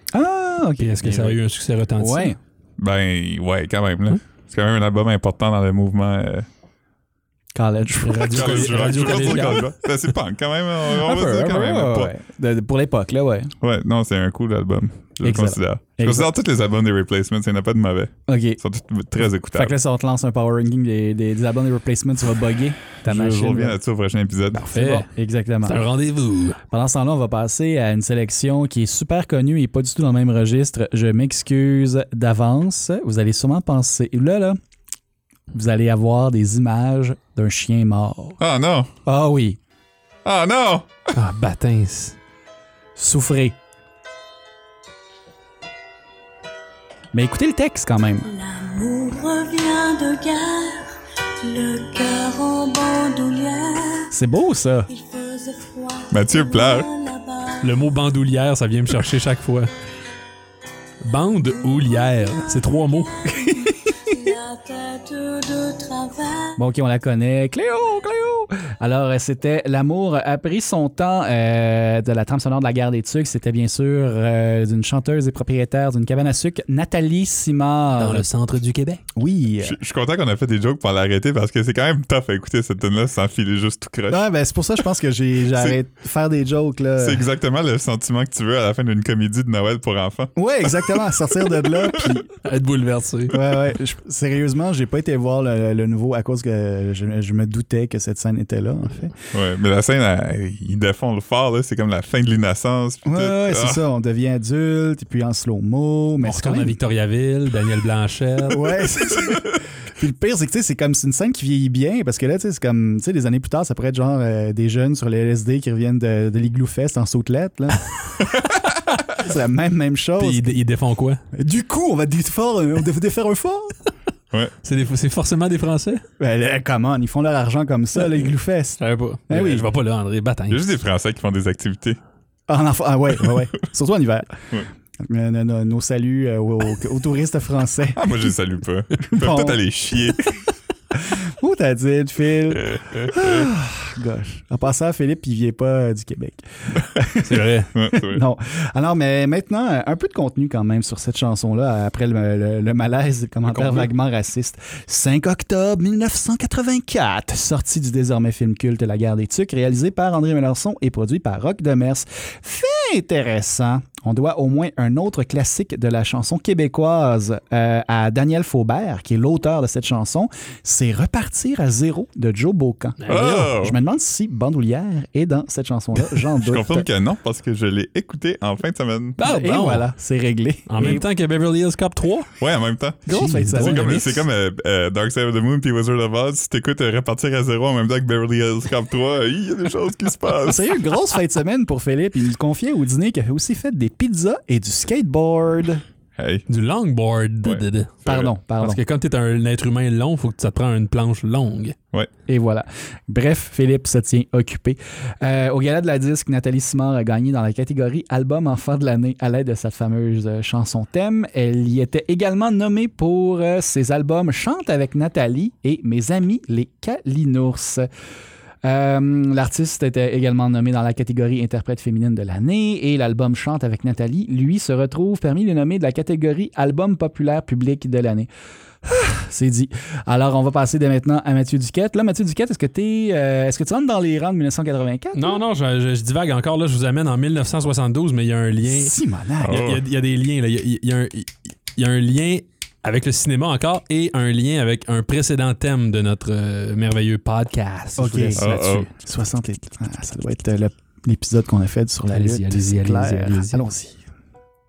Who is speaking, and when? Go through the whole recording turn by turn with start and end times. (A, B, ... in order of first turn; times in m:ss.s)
0:00.1-0:01.4 A
0:00.8-0:02.3 B
0:02.0-0:02.4 A
0:02.8-0:06.5 C
0:07.6-0:09.6 A
0:08.0-0:09.8 B
0:08.3-0:12.1 C
0:11.0-0:13.5 A
0:13.6-0:19.8 C
0:15.2-0:16.3 A
0:18.3-0:18.6 A
0:19.5-0:23.8 A
0:23.0-0:24.7 C
0:24.5-0:25.8 A
0:24.7-0:25.1 B
0:25.6-0:26.6 B
0:26.7-0:34.6 A
0:35.5-0:38.4 A
0:38.4-0:38.9 C
0:39.1-0:39.6 A
0:40.2-0:40.9 C
0:41.2-0:42.2 B
0:43.0-0:43.6 A
0:47.1-0:48.3 A
0:48.2-0:54.1 D
0:54.1-0:54.9 A
0:54.9-0:57.9 D
0:56.1-0:56.9 C
0:57.6-0:59.7 B
1:01.1-1:03.1 B
1:01.6-1:06.6 D
1:03.4-1:03.7 A
1:06.6-1:18.3 A
1:18.0-1:19.0 B
1:19.2-1:19.8 A
1:19.6-1:24.2 C
1:24.1-1:27.2 A
1:27.0-1:30.3 C
1:30.4-1:32.3 A
1:32.4-1:33.4 B
1:33.3-1:39.2 A
1:39.3-1:43.8 C
1:43.0-1:46.8 A
1:46.2-1:48.8 B
1:48.5-1:57.9 A
1:59.1-2:00.5 A
2:00.2-2:01.2 B
2:01.3-2:03.8 A
2:04.6-2:06.0 B
2:06.2-2:09.6 A
2:08.8-2:10.6 B
2:10.5-2:12.0 C
2:12.5-2:14.4 A
2:15.0-2:18.3 A
2:18.0-2:20.3 C
2:19.0-2:19.6 A
2:20.9-2:56.9 A
2:27.2-2:27.7 B
2:27.7-2:28.2 C
2:33.5-2:33.9 B
2:53.0-2:53.5 B
2:53.1-2:53.8 C
2:56.4-2:59.2 C
2:59.2-2:59.9 B
2:59.2-3:01.0 A
3:00.7-3:02.3 B
3:02.4-3:10.7 C
3:03.1-3:04.2 A
3:03.1-3:04.2 B
3:10.4-3:15.8 A
3:16.2-3:16.4 C
3:16.5-3:18.0 B
3:17.4-3:18.3 C
3:18.1-3:18.8 A
3:18.6-3:21.8 B
3:22.3-3:37.9 A
3:38.6-3:48.3 A
3:48.8-3:55.4 A
3:55.1-4:09.0 B
3:58.7-3:59.7 A
3:59.4-3:59.8 C
4:08.0-4:08.4 A
4:08.4-4:08.9 C
4:09.0-4:14.0 A
4:12.1-4:13.6 B